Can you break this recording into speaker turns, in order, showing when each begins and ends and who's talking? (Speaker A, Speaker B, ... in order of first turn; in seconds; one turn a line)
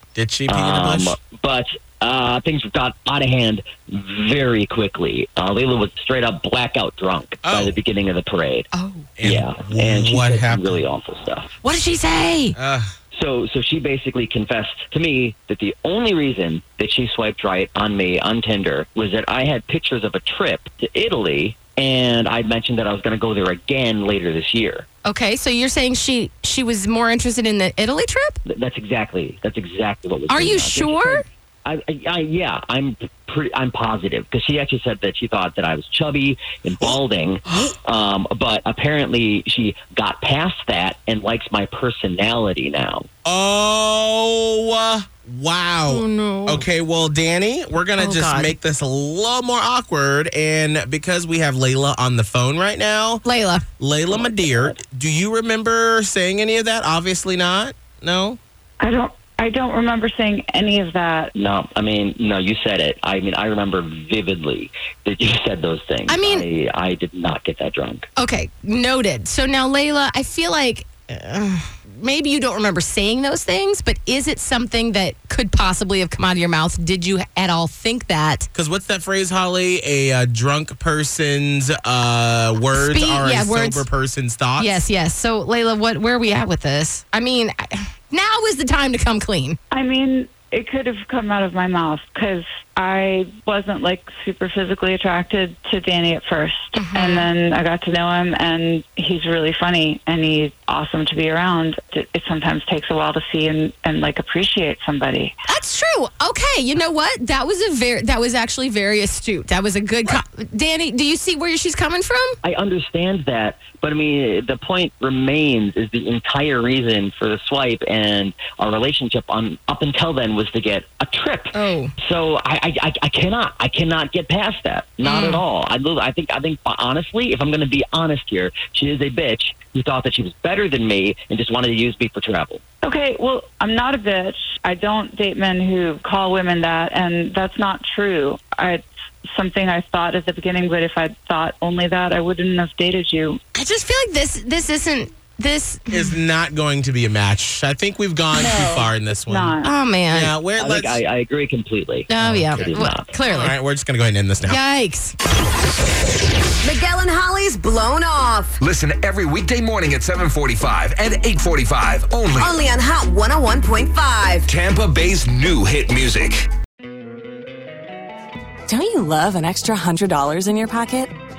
Speaker A: 0.1-1.2
Speaker B: 0.5-8.7
Speaker A: 7.4-7.8
Speaker C: 8.7-9.1
Speaker A: 9.2-10.8
Speaker B: 9.2-11.5
Speaker C: 11.6-12.6
Speaker A: 12.5-12.9
Speaker B: 13.1-24.9
Speaker C: 25.0-28.4
Speaker B: 28.5-43.1
Speaker C: 30.3-31.2
Speaker A: 43.2-53.2
Speaker C: 45.9-46.7
Speaker C: 48.0-48.5
Speaker C: 53.2-53.6
Speaker A: 53.8-58.4
Speaker B: 54.1-54.8
Speaker D: 58.8-61.3
Speaker B: 61.3-68.1
Speaker C: 66.1-66.5
Speaker C: 68.2-78.5
Speaker A: 78.5-84.8
Speaker C: 82.7-83.8
Speaker C: 84.6-89.6
Speaker D: 89.7-105.3
Speaker C: 96.7-97.3
Speaker C: 105.5-112.4
Speaker B: 112.4-132.6
Speaker C: 121.5-121.9
Speaker C: 125.0-125.4
Speaker D: 132.8-143.4
Speaker C: 143.6-146.2
Speaker A: 145.9-149.6
Speaker D: 149.2-149.7
Speaker C: 149.6-150.3
Speaker A: 150.1-151.0
Speaker B: 150.6-153.1
Speaker C: 152.1-153.5
Speaker A: 152.2-154.6
Speaker C: 154.5-155.2
Speaker E: 156.6-158.5
Speaker F: 158.6-162.6
Speaker E: 162.4-164.4
Speaker F: 164.4-166.5
Speaker G: 168.7-171.2